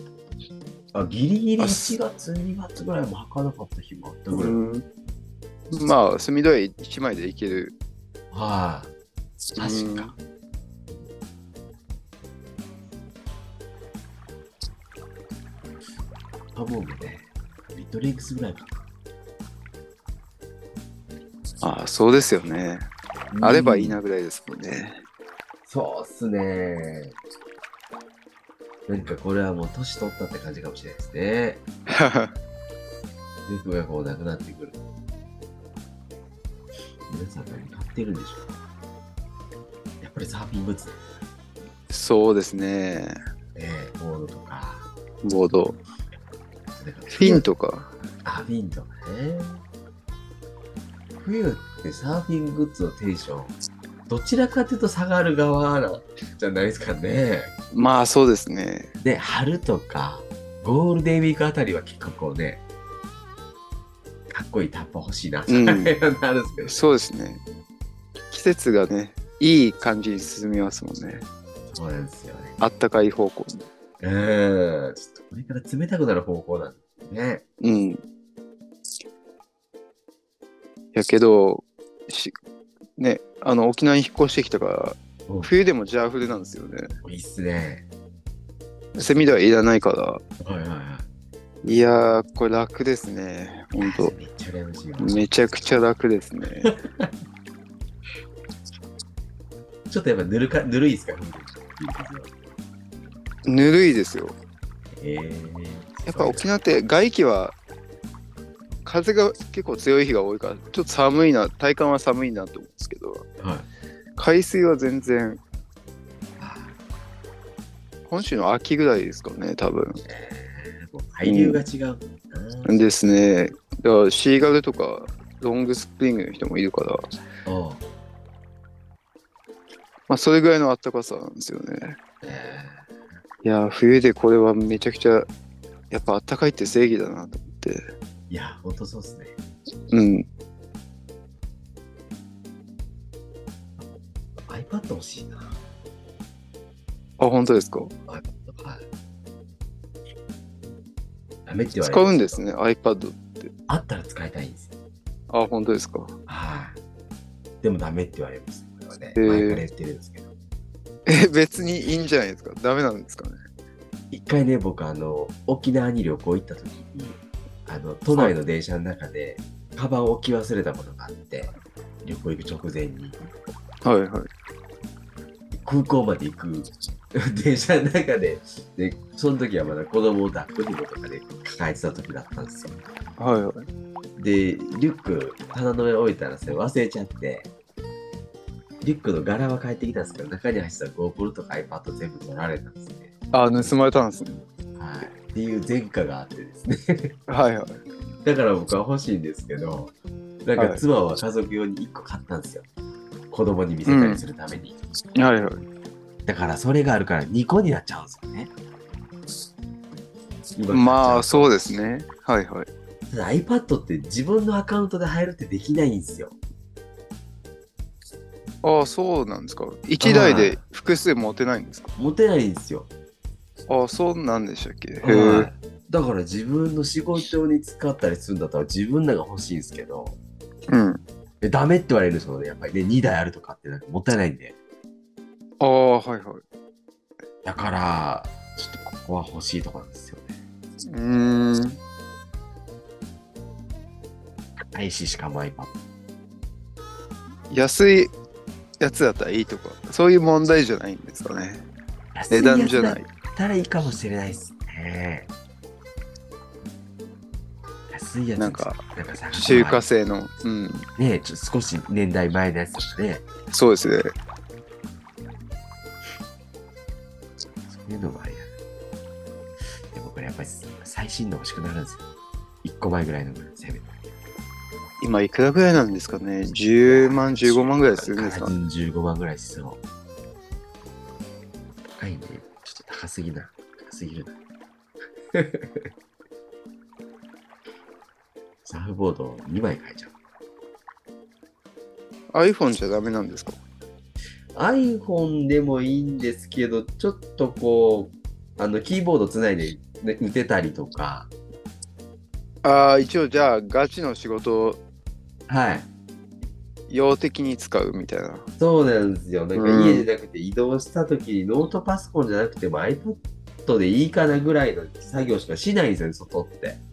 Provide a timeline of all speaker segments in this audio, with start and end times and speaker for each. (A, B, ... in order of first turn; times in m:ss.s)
0:00.9-0:04.6 A
0:01.6-0:02.0 B
0:04.3-0:04.8 B
0:05.7-0:07.8 B
0:08.3-0:08.9 A
0:09.6-0:10.1 B
0:09.6-0:10.1 A
0:16.6-0:18.8 A
0:21.6-0:22.9 B
0:23.3-0:24.0 A
0:23.4-0:25.0 B
0:25.7-0:27.2 A
0:28.9-0:31.6 A
0:31.9-0:32.3 B
0:33.5-0:34.8 A
0:37.1-0:38.6 A
0:40.0-0:41.0 A
0:41.9-0:43.2 B
0:43.6-0:44.9 A
0:45.2-0:45.8 B
0:46.8-0:47.4 A
0:47.1-0:47.9 B
0:48.2-0:49.6 A
0:51.2-0:53.6 A
0:54.1-0:57.5 A
0:57.7-0:58.9 B
0:59.0-1:02.6 A
1:04.3-1:06.8 A
1:05.5-1:05.9 B
1:06.6-1:07.4 B
1:08.3-1:11.2 B
1:11.7-1:12.6 A
1:12.6-1:13.7 B
1:14.0-1:17.4 A
1:17.6-1:18.0 B
1:20.9-1:22.3 B
1:23.0-1:26.9 B
1:27.0-1:27.9 A
1:29.0-1:30.2 B
1:30.4-1:31.1 A
1:31.6-1:34.1 B
1:33.8-1:35.2 A
1:35.0-1:36.7 B
1:36.6-1:37.1 A
1:39.9-1:42.3 A
1:43.5-1:44.4 B
1:44.9-1:46.5 A
1:46.1-1:47.6 B
1:48.8-1:53.3 B
1:53.4-1:53.7 A
1:54.2-1:55.4 B
1:56.4-1:56.7 A
1:58.1-2:00.0 B
2:00.1-2:02.8 A
2:01.2-2:01.6 B
2:02.6-2:07.0 B
2:07.4-2:07.8 A
2:10.1-2:12.0 B
2:12.2-2:12.9 A
2:13.4-2:15.3 B
2:15.9-2:17.8 B
2:18.3-2:19.4 A
2:19.9-2:20.3 B
2:24.4-2:25.6 A
2:27.2-2:27.9 B
2:28.1-2:28.8 A
2:31.4-2:32.4 A
2:31.8-2:33.5 B
2:33.7-2:34.7 A
2:35.3-2:36.2 B
2:36.3-2:36.8 A
2:37.6-2:40.3 A
2:39.2-2:39.6 B
2:41.1-2:43.4 B
2:44.1-2:53.2 A
2:53.8-2:54.3 B
2:55.5-3:02.8 A
3:03.2-3:03.7 B
3:04.2-3:07.5 A
3:08.8-3:13.8 A
3:13.3-3:14.4 B
3:14.8-3:17.2 A
3:17.3-3:17.8 B
3:18.2-3:19.9 A
3:20.4-3:22.6 A
3:20.6-3:20.8 B
3:23.3-3:24.8 A
3:23.9-3:24.2 B
3:25.1-3:25.6 B
3:26.2-3:28.5 A
3:30.6-3:31.5 A
3:30.7-3:32.7 B
3:33.1-3:36.4 A
3:38.6-3:41.9 B
3:40.0-3:40.6 A
3:42.0-3:42.9 A
3:43.7-3:45.5 B
3:45.0-3:50.2 A
3:50.7-3:51.0 B
3:51.4-3:54.6 A
3:55.6-3:56.4 B
3:57.4-4:00.3 A
4:00.9-4:01.8 B
4:04.7-4:05.7 A
4:07.5-4:08.1 B
4:08.8-4:11.6 B
4:12.1-4:15.3 A
4:12.3-4:13.1 B
4:17.9-4:19.9 A
4:18.4-4:18.8 B
4:19.3-4:20.9 B
4:21.0-4:23.3 A
4:23.5-4:24.1 B
4:27.7-4:28.5 A
4:29.9-4:32.0 A
4:32.6-4:33.9 A
4:35.0-4:38.6 B
4:36.9-4:39.8 A
4:42.0-4:44.4 A
4:45.3-4:45.9 A
4:48.6-4:50.1 A
4:52.3-4:53.6 B
4:54.5-5:01.3 A
5:02.6-5:04.8 B
5:05.5-5:05.9 A
5:06.9-5:08.5 B
5:08.6-5:16.8 A
5:09.6-5:10.1 B